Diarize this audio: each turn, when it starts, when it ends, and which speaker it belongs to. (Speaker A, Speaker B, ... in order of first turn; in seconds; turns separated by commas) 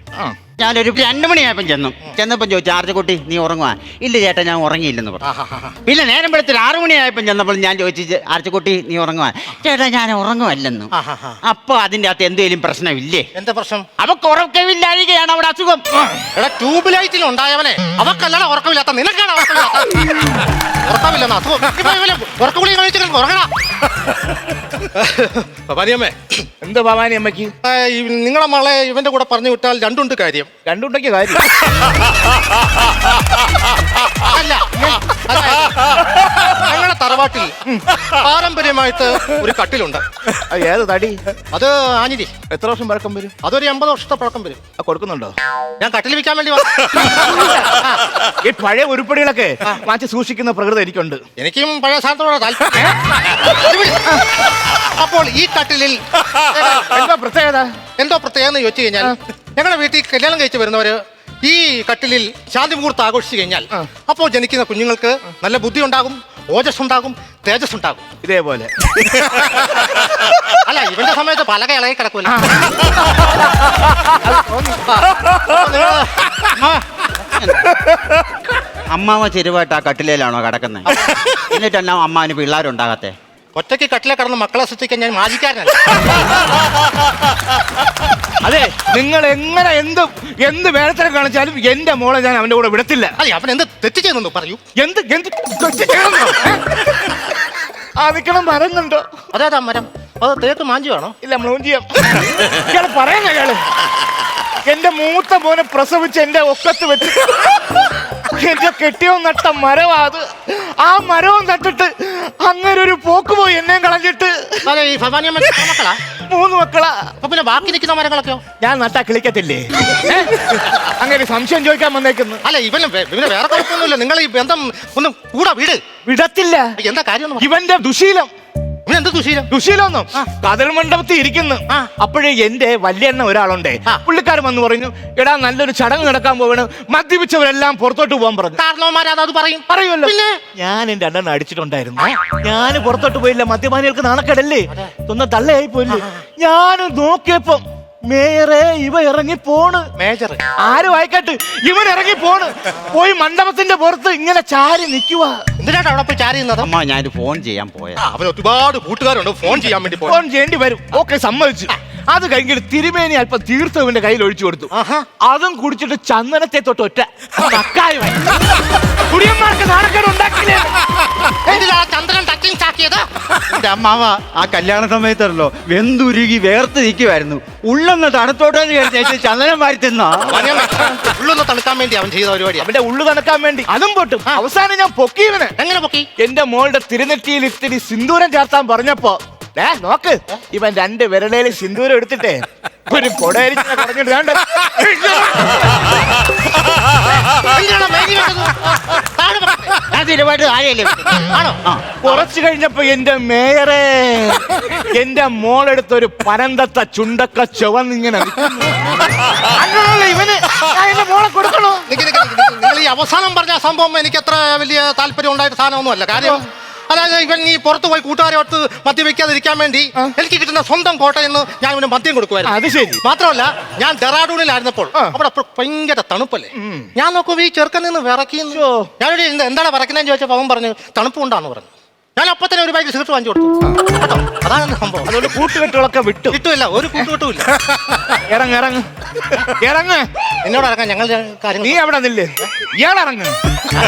Speaker A: 0.6-5.3, Speaker B: 5.2-5.8, Speaker A: 5.8-10.9, Speaker B: 10.9-11.4, Speaker A: 11.5-13.3, Speaker B: 13.3-13.8, Speaker A: 14.0-15.8, Speaker B: 16.3-20.2, Speaker B: 20.8-23.5, Speaker B: 24.9-26.4, Speaker C: 26.6-27.5, Speaker B: 27.6-30.5, Speaker C: 30.6-31.4, Speaker B: 34.2-40.0, Speaker C: 40.3-41.2, Speaker B: 41.5-42.3, Speaker C: 42.5-43.3, Speaker B: 43.4-44.6, Speaker C: 44.8-45.3, Speaker B: 45.8-48.0, Speaker C: 47.4-47.6, Speaker C: 48.4-51.2, Speaker B: 51.4-52.9, Speaker B: 53.4-54.0, Speaker B: 54.9-56.9, Speaker C: 56.8-57.7, Speaker B: 58.0-68.0, Speaker C: 68.2-69.6, Speaker B: 70.6-72.4, Speaker C: 72.2-72.9, Speaker C: 73.9-74.8, Speaker B: 74.8-76.8, Speaker A: 76.6-77.7, Speaker A: 78.9-83.1, Speaker B: 83.5-86.1, Speaker C: 88.4-93.1, Speaker B: 93.2-94.6, Speaker C: 94.8-96.7, Speaker C: 98.0-99.0, Speaker B: 99.3-101.1, Speaker C: 101.2-103.6, Speaker C: 104.6-107.5, Speaker C: 108.3-114.7, Speaker B: 114.6-116.0, Speaker C: 116.3-117.1, Speaker B: 117.2-118.4, Speaker C: 118.6-122.4, Speaker B: 122.4-125.8, Speaker C: 126.0-126.7, Speaker B: 126.8-127.5, Speaker C: 127.4-128.3, Speaker B: 128.8-129.5, Speaker C: 129.5-138.6, Speaker B: 138.6-140.4, Speaker C: 139.7-149.8, Speaker B: 145.9-146.2, Speaker B: 150.0-150.4, Speaker C: 150.6-155.4, Speaker B: 155.6-156.7, Speaker A: 156.6-158.0, Speaker B: 158.0-160.2, Speaker C: 160.1-164.7, Speaker B: 164.7-165.1, Speaker C: 165.2-168.3, Speaker C: 169.1-170.8, Speaker B: 171.4-173.1, Speaker A: 173.5-180.3, Speaker B: 180.3-182.7, Speaker C: 182.6-185.5, Speaker B: 185.6-186.1, Speaker C: 186.2-195.6, Speaker B: 197.4-199.8, Speaker A: 199.9-201.8, Speaker B: 201.2-202.3, Speaker C: 202.0-208.7, Speaker C: 209.4-211.9, Speaker B: 211.9-235.1, Speaker C: 222.4-223.0, Speaker C: 226.6-226.9, Speaker C: 228.5-228.9, Speaker C: 235.1-236.4, Speaker B: 236.3-237.9, Speaker C: 238.3-238.8, Speaker C: 239.6-240.1, Speaker B: 240.4-241.8, Speaker C: 241.6-243.3